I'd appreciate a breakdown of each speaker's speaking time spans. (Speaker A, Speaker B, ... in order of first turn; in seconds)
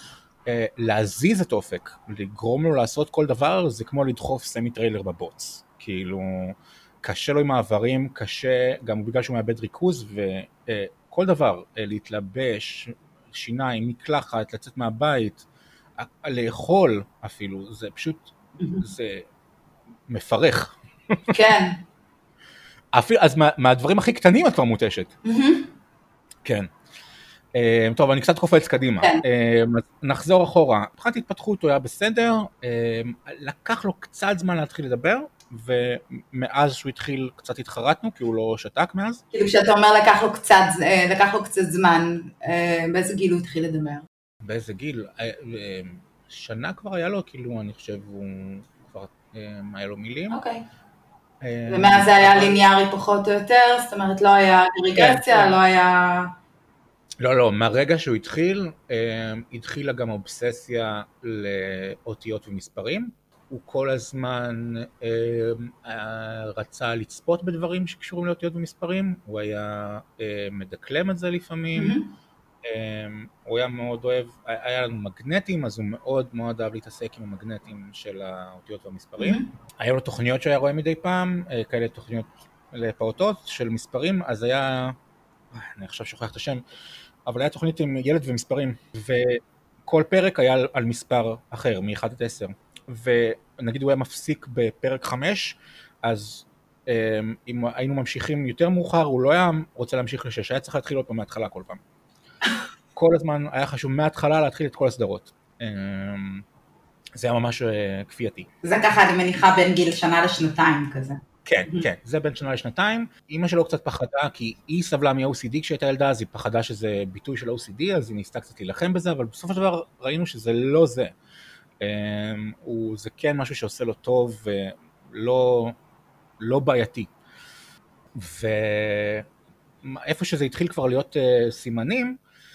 Speaker A: 0.5-15.4, 16.0-19.2, 20.1-21.4, 22.9-25.1, 27.6-39.2, 44.4-50.4, 51.4-52.6, 54.9-55.5, 57.2-72.0, 72.6-84.9, 85.5-86.6, 87.2-101.8, 102.9-106.4, 107.2-108.5, 111.4-121.1, 121.8-125.8, 126.4-127.1, 128.2-129.2, 129.8-132.2
Speaker B: 18.6-18.9, 21.3-21.8, 25.2-25.7, 39.3-44.1, 50.3-50.6, 51.7-56.3, 71.8-72.1, 79.2-79.5, 108.6-111.9